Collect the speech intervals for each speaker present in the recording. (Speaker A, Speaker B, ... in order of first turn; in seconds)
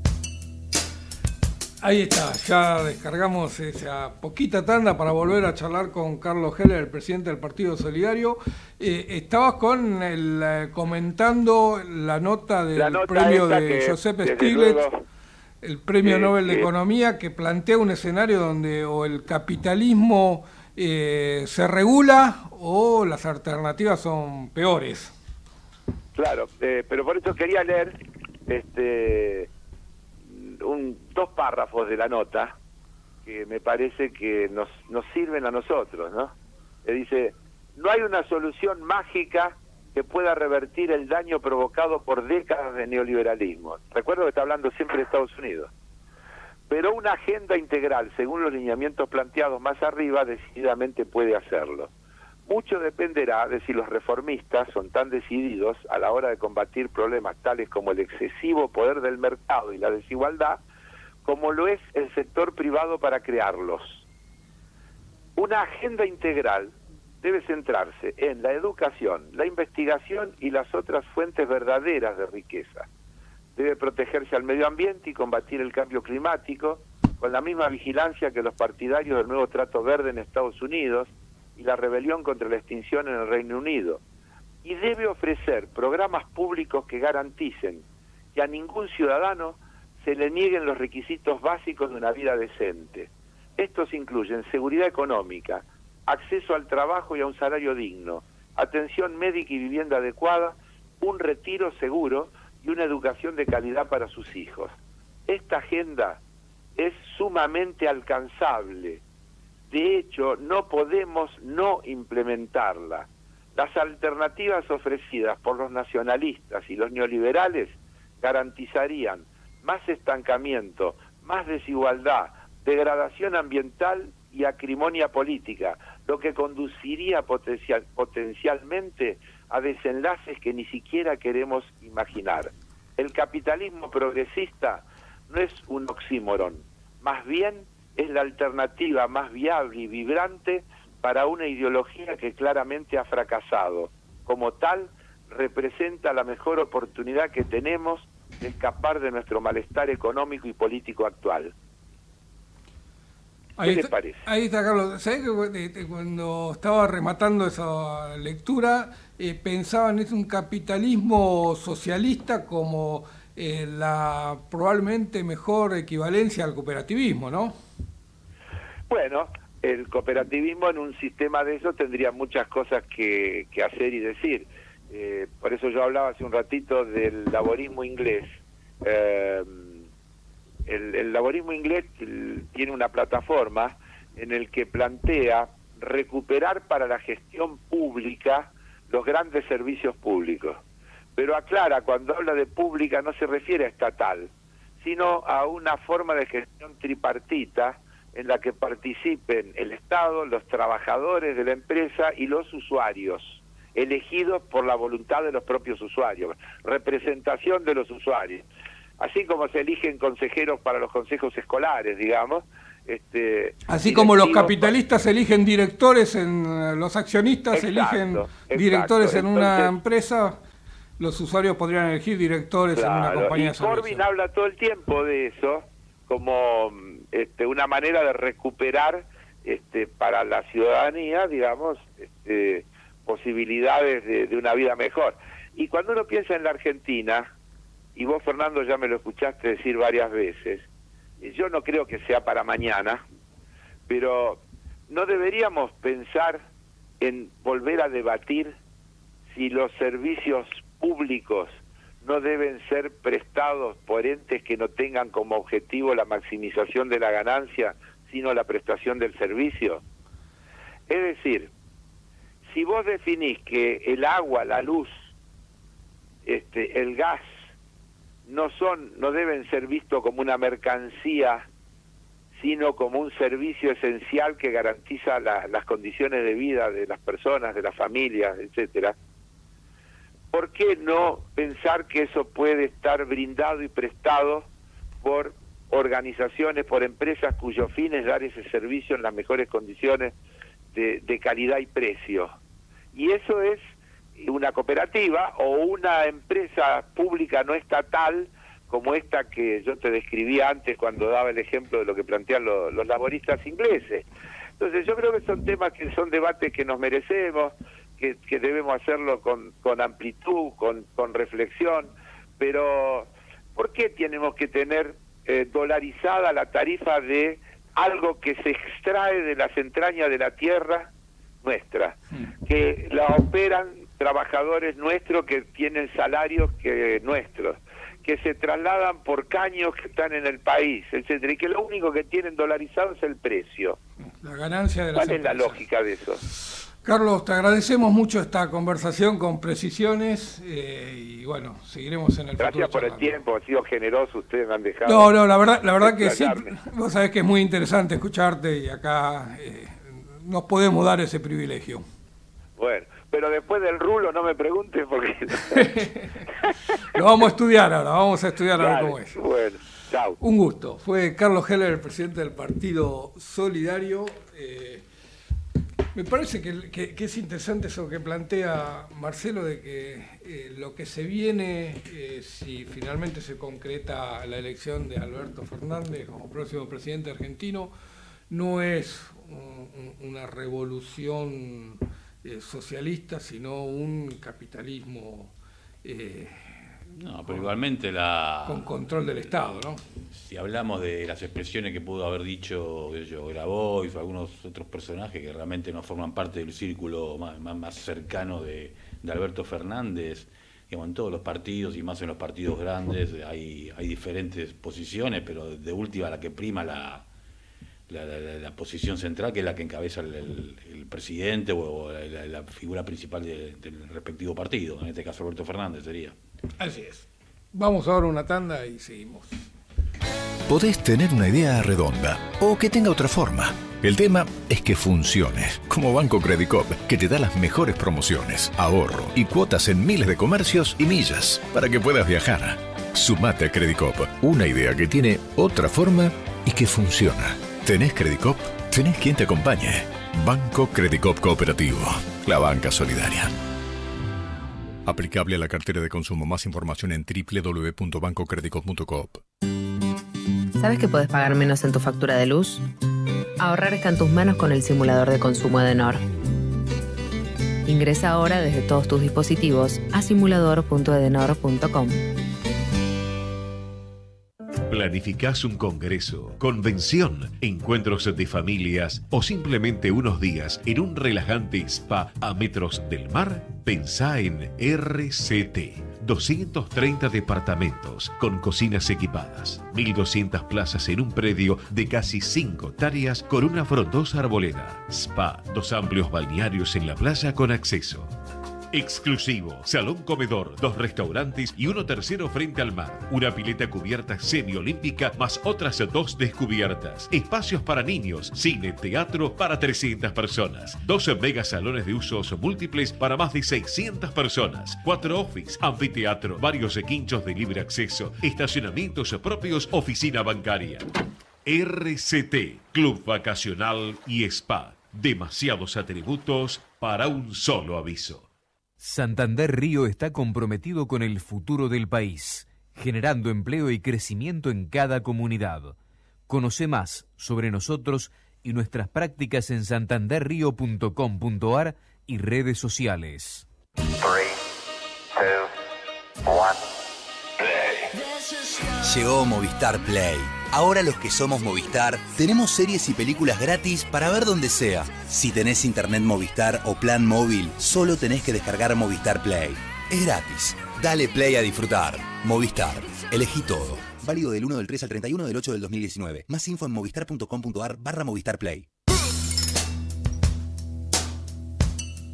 Speaker A: 1.8-14.8, 15.6-25.1, 153.6-167.5, 213.7-220.4, 221.0-224.0, 334.2-335.6, 336.8-343.2, 344.9-351.8, 355.4-356.2, 356.9-359.2, 360.2-364.8, 365.9-377.7, 378.3-385.3, 385.8-386.6, 388.4-389.8, 416.6-419.4
Speaker B: 12.8-14.9, 16.0-16.7, 26.1-27.9, 28.5-29.5, 30.3-32.5, 33.2-36.3, 36.8-45.7, 46.7-51.9, 52.5-60.6, 61.2-64.0, 65.4-72.9, 73.5-84.0, 84.6-87.8, 88.3-104.7, 105.3-106.2, 106.8-109.0, 109.7-151.5, 153.6-154.2, 168.9-178.3, 178.8-179.8, 180.7-190.6, 191.2-194.3, 194.8-208.4, 209.0-214.7, 217.5-219.7, 222.7-237.3, 237.9-240.7, 241.2-243.0, 243.9-246.4, 247.0-248.5, 249.3-259.8, 260.9-261.5, 262.5-264.9, 266.2-267.2, 268.2-271.4, 272.4-278.9, 280.3-284.5, 285.0-290.1, 290.7-292.3, 292.9-293.6, 294.2-304.0, 304.6-320.9, 321.4-333.8, 334.9-336.2, 342.4-345.1, 345.8-346.5, 352.6-355.7, 358.6-360.2
Speaker C: 386.9-388.7, 390.3-407.1, 407.9-416.1
Speaker D: 420.5-443.3, 444.9-449.2
Speaker E: 450.6-452.6, 453.4-456.0, 457.6-462.0
Speaker F: 464.7-488.1, 488.7-510.9, 511.4-518.3
Speaker G: 518.8-525.8, 526.3-533.5
Speaker H: 538.8-558.7